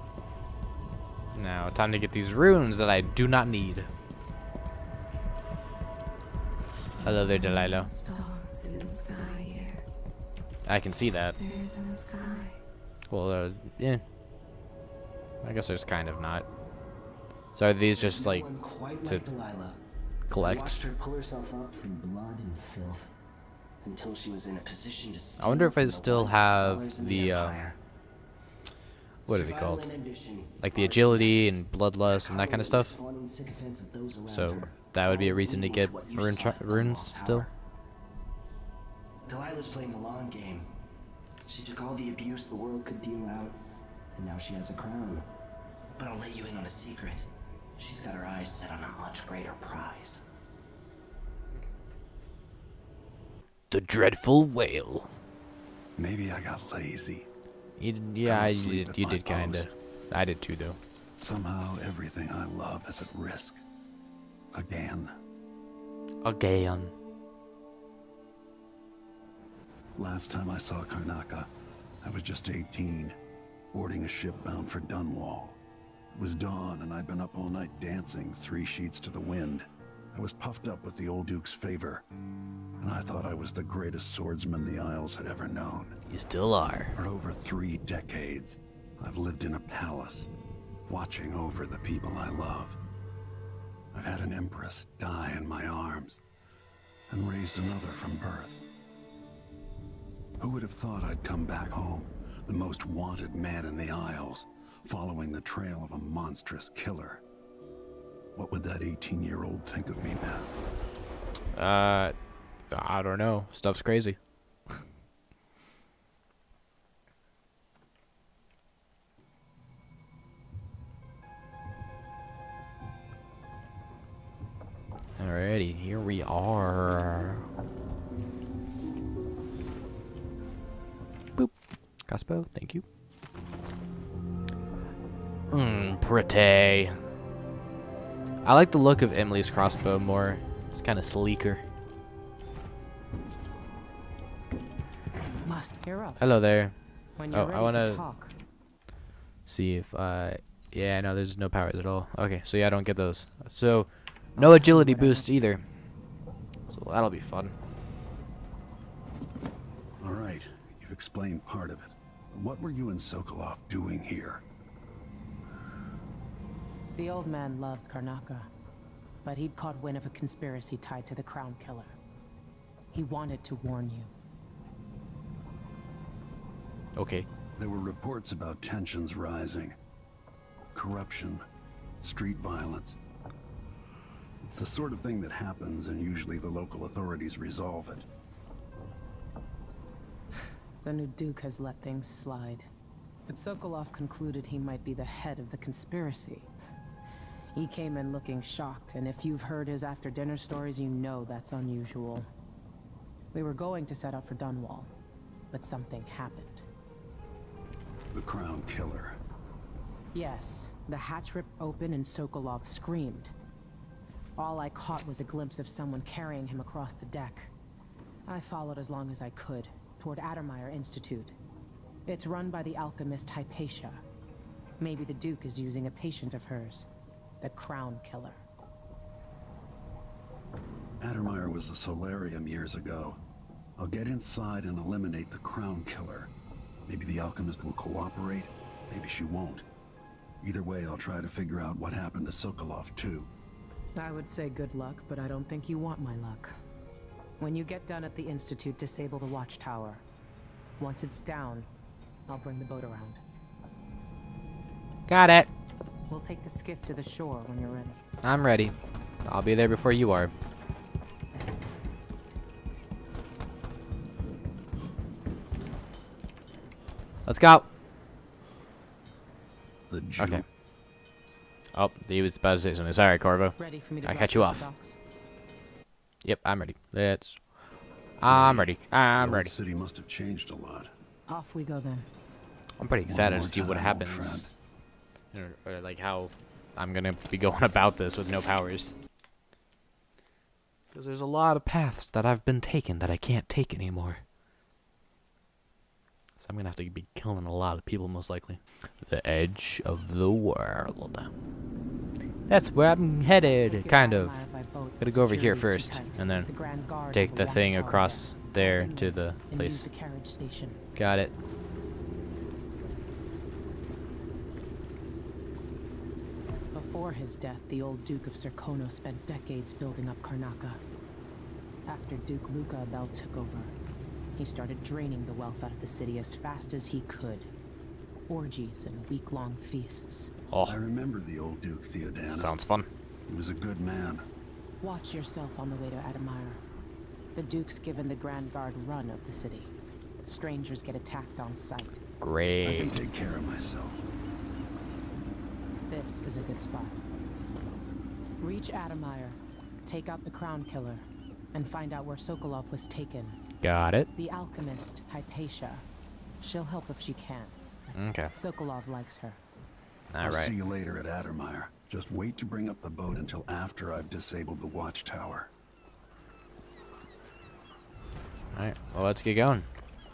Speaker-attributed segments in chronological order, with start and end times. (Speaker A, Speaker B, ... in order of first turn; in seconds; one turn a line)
Speaker A: 1.3-3.9
Speaker A: 7.0-7.9
Speaker B: 7.0-9.8
Speaker A: 10.6-11.3
Speaker B: 11.4-12.6
Speaker A: 13.1-14.0
Speaker A: 15.4-16.4
Speaker A: 17.5-18.5
Speaker C: 17.9-19.8
Speaker A: 20.3-20.8
Speaker C: 20.3-23.1
Speaker C: 23.8-27.8
Speaker A: 25.4-27.7
Speaker C: 29.2-31.5
Speaker A: 29.3-29.9
Speaker A: 30.6-32.9
Speaker C: 32.1-37.5
Speaker A: 34.3-37.5
Speaker C: 39.3-40.7
Speaker C: 41.5-43.6
Speaker C: 44.1-45.3
Speaker C: 46.0-50.2
Speaker A: 53.7-55.1
Speaker D: 56.0-57.3
Speaker A: 57.8-60.8
Speaker D: 58.2-59.7
Speaker D: 61.2-63.6
Speaker D: 64.5-65.1
Speaker A: 66.2-66.9
Speaker D: 70.0-71.5
Speaker D: 72.0-73.2
Speaker D: 73.7-75.6
Speaker D: 76.1-82.0
Speaker D: 82.8-86.0
Speaker A: 86.1-87.0
Speaker D: 86.9-90.3
Speaker D: 90.9-92.8
Speaker D: 93.9-96.2
Speaker D: 97.1-98.6
Speaker D: 100.4-107.2
Speaker D: 108.3-110.5
Speaker A: 111.5-112.1
Speaker A: 112.7-114.2
Speaker A: 125.2-127.4
Speaker A: 132.1-132.8
Speaker A: 135.5-137.0
Speaker A: 138.4-141.6
Speaker E: 145.4-146.2
Speaker A: 146.2-146.7
Speaker E: 147.2-148.3
Speaker A: 147.3-148.0
Speaker A: 149.4-155.6
Speaker E: 154.3-155.3
Speaker A: 156.7-157.5
Speaker D: 160.0-164.4
Speaker E: 166.9-168.5
Speaker E: 169.2-171.9
Speaker E: 172.9-174.1
Speaker A: 176.9-177.3
Speaker D: 177.6-179.8
Speaker D: 180.7-181.4
Speaker D: 182.0-183.0
Speaker D: 184.4-188.1
Speaker E: 190.8-192.7
Speaker E: 193.3-196.5
Speaker E: 197.5-202.3
Speaker E: 203.3-204.9
Speaker E: 205.5-206.7
Speaker D: 208.1-209.2
Speaker E: 210.1-213.3
Speaker E: 214.4-217.5
Speaker E: 218.2-221.3
Speaker E: 222.1-224.0
Speaker E: 224.8-226.9
Speaker E: 227.4-228.4
Speaker D: 231.0-233.2
Speaker D: 233.8-236.3
Speaker D: 236.9-239.6
Speaker D: 240.4-243.3
Speaker E: 243.9-246.5
Speaker E: 247.4-250.0
Speaker E: 250.8-251.7
Speaker E: 252.3-253.2
Speaker A: 255.1-255.5
Speaker E: 256.1-258.0
Speaker A: 258.2-258.7
Speaker A: 259.2-260.3
Speaker A: 267.2-267.7
Speaker D: 269.9-270.5
Speaker A: 270.2-270.4
Speaker A: 271.7-274.7
Speaker E: 273.6-275.0
Speaker A: 276.2-277.4
Speaker A: 278.2-279.5
Speaker D: 278.2-280.9
Speaker E: 281.3-282.1
Speaker A: 282.8-284.5
Speaker D: 283.0-284.5
Speaker A: 285.3-288.9
Speaker A: 290.9-294.2
Speaker A: 296.4-301.3
Speaker A: 302.5-304.4
Speaker E: 303.4-310.8
Speaker A: 305.0-306.5
Speaker A: 307.1-309.9
Speaker A: 310.9-311.3
Speaker E: 316.7-320.8
Speaker E: 321.9-323.7
Speaker E: 324.4-327.5
Speaker E: 328.3-330.3
Speaker A: 330.5-330.8
Speaker D: 330.6-332.6
Speaker A: 332.3-332.9
Speaker D: 333.3-334.2
Speaker E: 334.8-336.6
Speaker E: 337.3-339.7
Speaker E: 340.2-342.0
Speaker A: 342.2-342.9
Speaker D: 342.6-344.0
Speaker E: 345.9-347.0
Speaker E: 348.4-353.4
Speaker A: 353.6-354.1
Speaker E: 354.1-355.8
Speaker E: 356.4-357.6
Speaker A: 357.9-358.3
Speaker E: 358.3-359.4
Speaker A: 360.1-360.5
Speaker D: 360.2-365.5
Speaker A: 368.5-369.7